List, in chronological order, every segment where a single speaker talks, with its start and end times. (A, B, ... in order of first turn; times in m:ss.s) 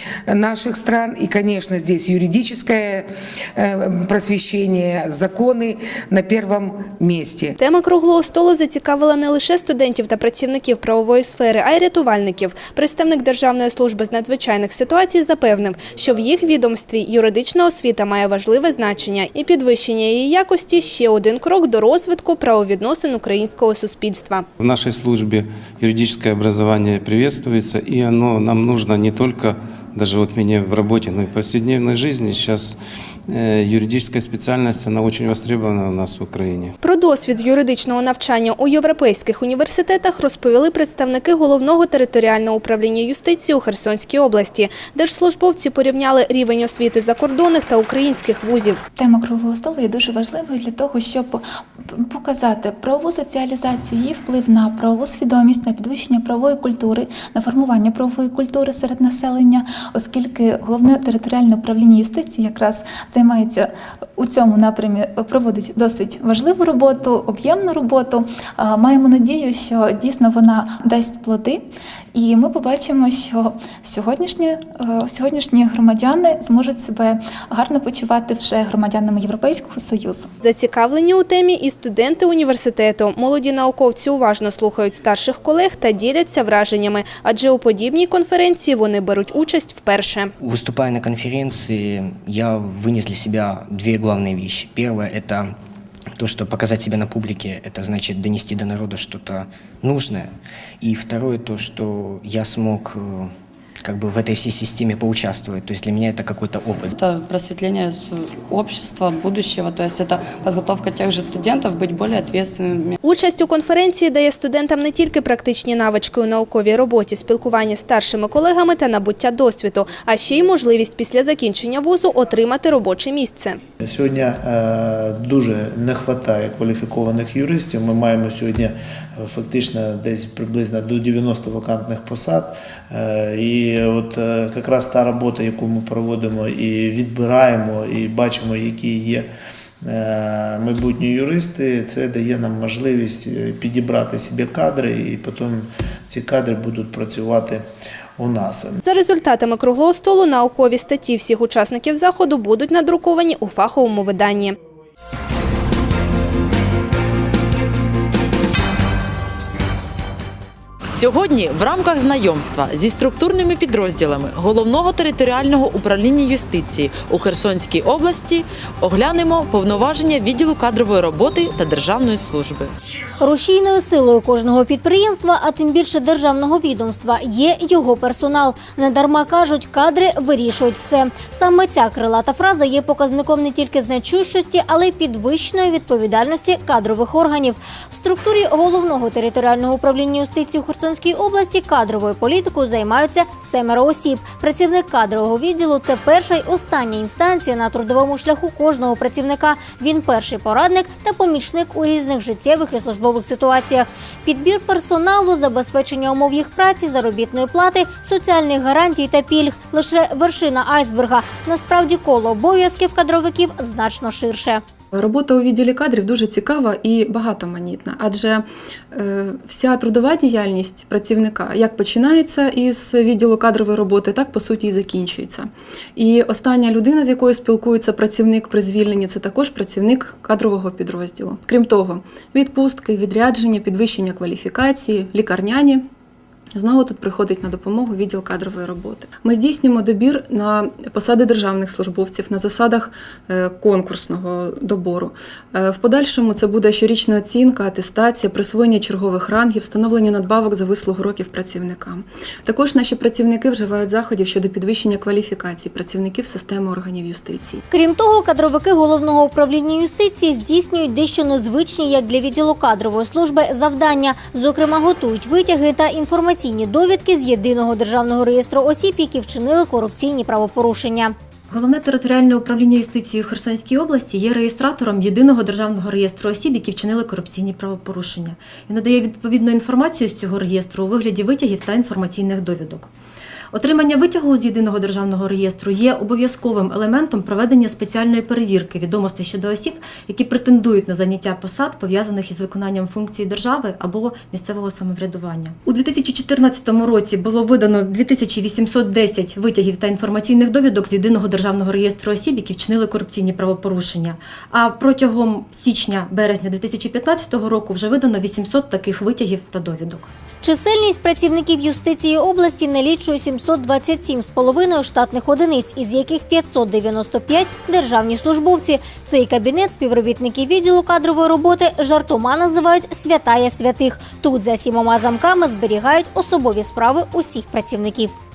0:00.3-0:07.6 A
0:07.6-0:24.5 B
0:24.6-0:36.7 C
0:36.8-0:48.8 B
0:49.0-1:20.3 D
1:20.4-1:30.3 B
1:30.4-1:35.5 E
1:36.2-1:43.3 E
1:43.8-1:46.9 E
1:46.9-1:53.0 F
1:53.0-2:03.6 B
2:03.8-2:19.3 G
2:19.8-2:27.7 G
2:28.2-2:28.8 G
2:28.8-2:34.6 B
2:40.9-2:52.7 H
2:53.2-3:34.6 I
3:34.9-3:55.8 J
3:56.5-4:17.6 J
4:17.7-4:31.2 I
4:31.5-4:42.9 K
4:43.5-5:10.1 K
5:10.4-5:28.2 I